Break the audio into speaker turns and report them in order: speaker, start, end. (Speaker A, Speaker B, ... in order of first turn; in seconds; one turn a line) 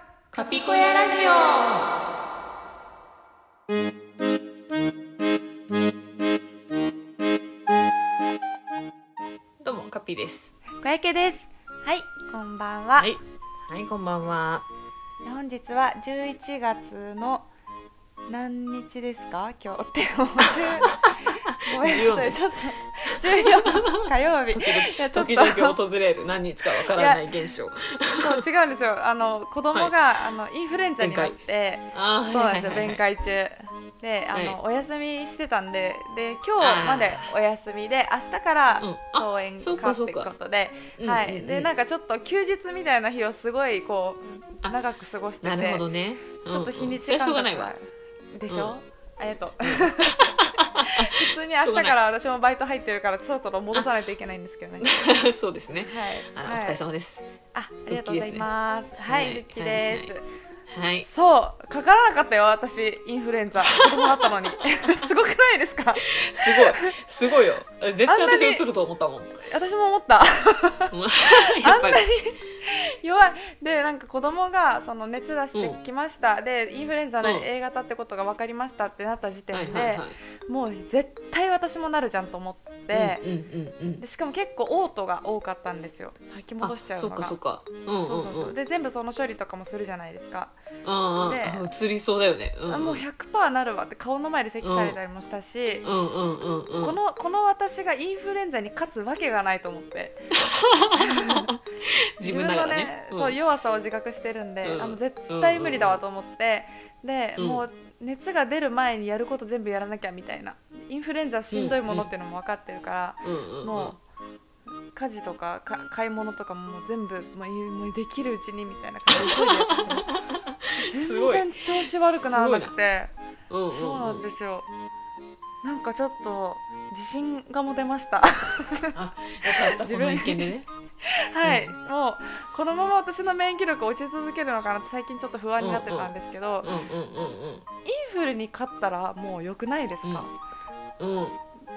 Speaker A: 0.3-1.0
Speaker B: 0.3-1.9
Speaker A: 9.6-10.6
Speaker B: 10.8-13.1
Speaker A: 13.0-14.7
Speaker B: 15.2-17.5
Speaker B: 18.3-25.8
Speaker A: 21.5-22.5
Speaker A: 23.1-28.4
Speaker B: 26.9-27.2
Speaker B: 28.2-45.9
Speaker A: 31.0-31.4
Speaker A: 31.9-33.0
Speaker A: 36.6-37.3
Speaker A: 38.8-40.3
Speaker A: 41.0-41.7
Speaker A: 45.4-47.7
Speaker B: 46.5-47.8
Speaker B: 48.4-50.2
Speaker A: 48.5-48.8
Speaker A: 49.7-52.0
Speaker B: 50.8-54.9
Speaker A: 54.8-57.3
Speaker B: 55.8-56.8
Speaker B: 57.5-60.2
Speaker A: 57.9-58.5
Speaker A: 59.1-60.1
Speaker A: 60.7-61.1
Speaker B: 61.0-67.0
Speaker A: 63.7-64.3
Speaker A: 66.1-69.3
Speaker B: 68.1-68.7
Speaker B: 69.4-83.2
Speaker A: 70.9-72.0
Speaker A: 77.2-77.5
Speaker A: 79.5-80.2
Speaker A: 82.9-84.0
Speaker B: 84.0-87.4
Speaker A: 86.6-88.5
Speaker B: 88.0-90.5
Speaker A: 90.8-93.0
Speaker B: 91.2-91.7
Speaker B: 92.7-95.8
Speaker A: 94.6-95.0
Speaker A: 95.8-97.0
Speaker B: 96.8-100.3
Speaker A: 100.4-103.4
Speaker B: 101.0-101.5
Speaker B: 102.2-114.0
Speaker A: 104.6-106.0
Speaker A: 107.4-107.6
Speaker A: 111.5-112.1
Speaker A: 113.2-114.0
Speaker B: 114.9-120.1
Speaker A: 119.1-122.7
Speaker B: 120.7-123.1
Speaker A: 123.5-124.2
Speaker B: 123.7-124.7
Speaker B: 125.6-130.5
Speaker A: 128.9-130.7
Speaker B: 131.0-136.7
Speaker A: 131.4-131.8
Speaker A: 135.6-136.1
Speaker A: 136.6-137.7
Speaker B: 137.8-140.3
Speaker A: 140.0-140.3
Speaker A: 141.0-141.4